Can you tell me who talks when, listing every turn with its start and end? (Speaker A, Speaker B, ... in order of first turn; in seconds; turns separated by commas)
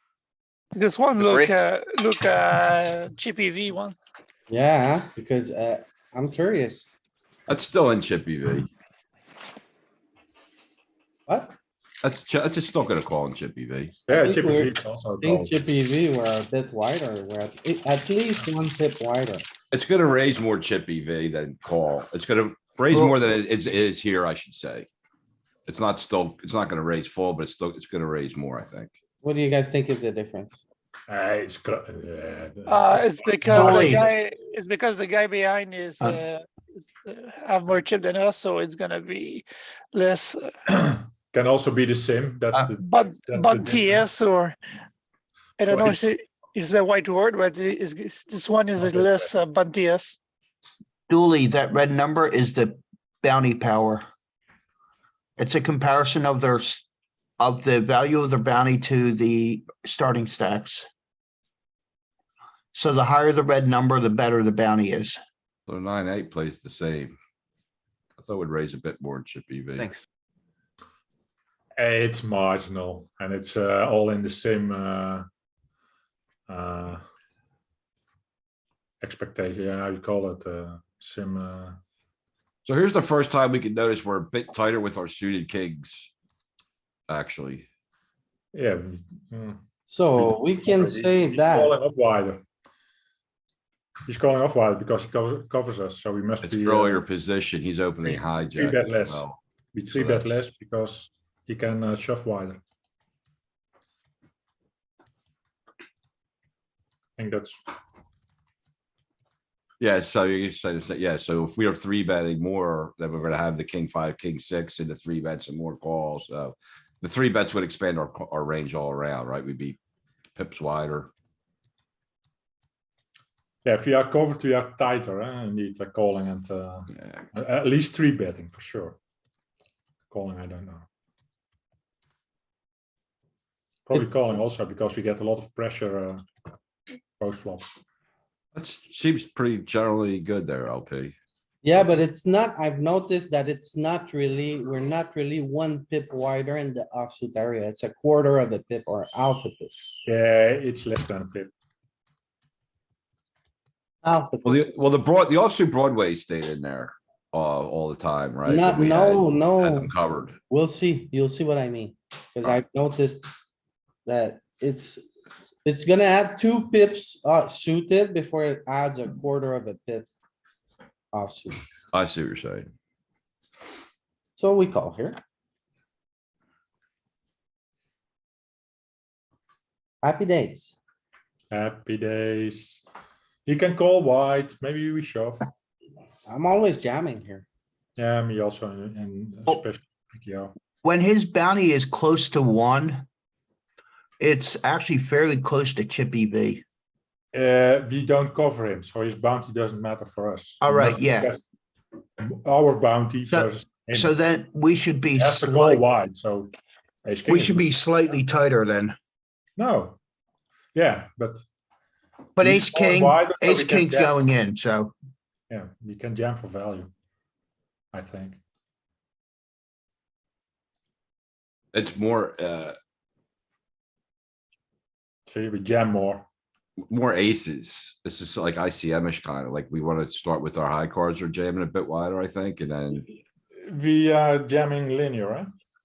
Speaker A: 0.8-4.0, Speaker B: 1.2-1.4, Speaker B: 4.5-6.9, Speaker C: 7.5-8.7, Speaker B: 11.3-11.5, Speaker C: 12.0-14.0, Speaker D: 14.1-15.6, Speaker B: 14.1-19.5, Speaker C: 19.7-24.9, Speaker C: 25.7-28.9, Speaker B: 29.2-30.6, Speaker D: 31.1-34.1, Speaker A: 32.7-36.4, Speaker E: 33.5-34.0, Speaker A: 37.0-40.5, Speaker D: 40.7-44.0, Speaker A: 42.8-44.5, Speaker A: 45.6-50.2, Speaker D: 45.6-46.0, Speaker D: 48.8-49.3, Speaker E: 51.1-54.0, Speaker E: 55.4-56.8, Speaker E: 57.4-60.9, Speaker E: 62.7-65.2, Speaker C: 65.7-67.2, Speaker C: 68.2-69.9, Speaker D: 71.8-75.3, Speaker D: 76.5-77.0, Speaker D: 79.0-81.8, Speaker C: 82.6-86.1, Speaker C: 87.1-87.7, Speaker D: 88.5-89.6, Speaker B: 89.9-91.7, Speaker D: 90.1-92.4, Speaker D: 94.1-97.0, Speaker C: 96.4-99.4, Speaker D: 98.0-102.6, Speaker C: 99.9-100.4, Speaker D: 107.2-107.6, Speaker C: 109.8-119.8, Speaker C: 120.3-121.1, Speaker D: 123.6-129.0, Speaker D: 130.1-130.8, Speaker D: 133.8-136.2, Speaker D: 137.2-137.7, Speaker C: 138.5-141.1, Speaker B: 141.6-150.0, Speaker D: 150.0-151.5, Speaker B: 154.0-154.7, Speaker C: 154.4-160.4, Speaker B: 158.4-159.9, Speaker B: 160.5-163.3, Speaker B: 164.0-165.0, Speaker B: 165.6-170.1, Speaker B: 171.1-171.6, Speaker C: 171.9-172.7, Speaker B: 174.3-175.2, Speaker B: 180.0-180.8, Speaker D: 181.5-182.8, Speaker D: 183.4-185.5, Speaker B: 186.2-187.4, Speaker D: 188.0-190.5, Speaker E: 190.8-193.0, Speaker E: 194.2-196.6, Speaker D: 197.3-201.4, Speaker E: 200.6-201.3, Speaker D: 202.2-204.1, Speaker E: 203.3-205.8, Speaker D: 205.1-206.5, Speaker D: 207.0-207.7, Speaker E: 207.3-209.0, Speaker D: 209.6-210.0, Speaker D: 210.7-211.4, Speaker E: 212.4-214.9, Speaker D: 212.4-214.1, Speaker D: 215.5-216.9, Speaker D: 217.9-218.4, Speaker C: 221.7-222.8, Speaker D: 225.3-226.2, Speaker C: 226.9-233.1, Speaker D: 233.6-235.5